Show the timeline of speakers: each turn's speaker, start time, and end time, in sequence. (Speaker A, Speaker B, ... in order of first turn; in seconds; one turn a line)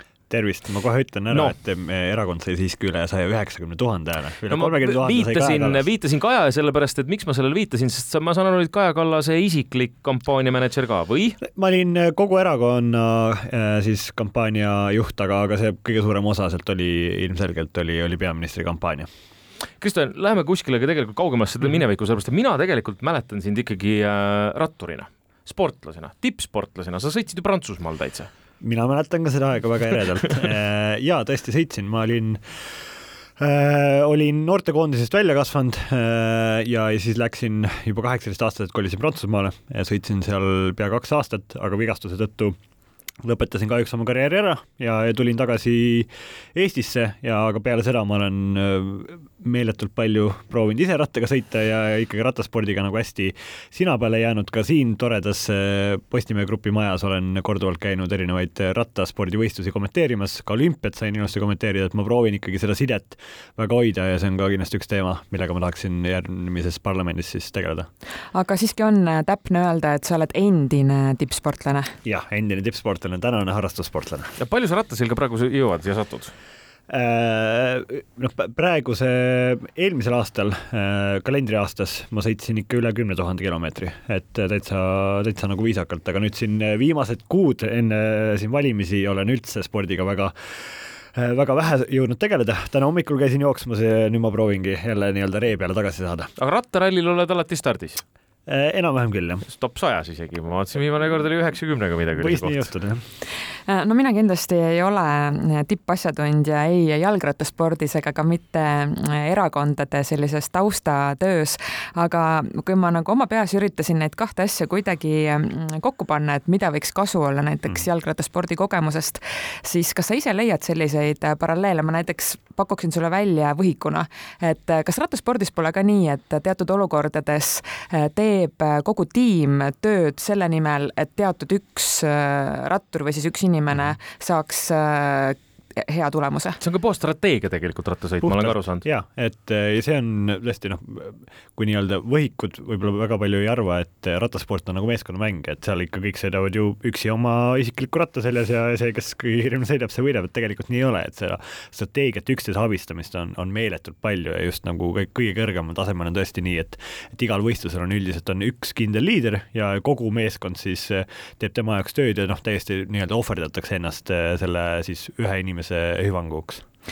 Speaker A: 0.3-5.8
Speaker B: 4.5-11.4
Speaker A: 11.5-19.1
Speaker B: 19.8-28.3
Speaker A: 28.6-32.4
Speaker A: 33.4-42.5
Speaker A: 43.2-67.9
Speaker C: 68.3-71.9
Speaker A: 72.0-74.3
Speaker B: 74.4-76.3
Speaker A: 76.9-90.3
Speaker A: 91.1-96.3
Speaker B: 96.4-98.0
Speaker A: 98.5-99.4
Speaker B: 99.5-102.7
Speaker A: 102.2-103.0
Speaker C: 103.7-136.6
Speaker B: 136.6-138.8
Speaker A: 138.2-166.6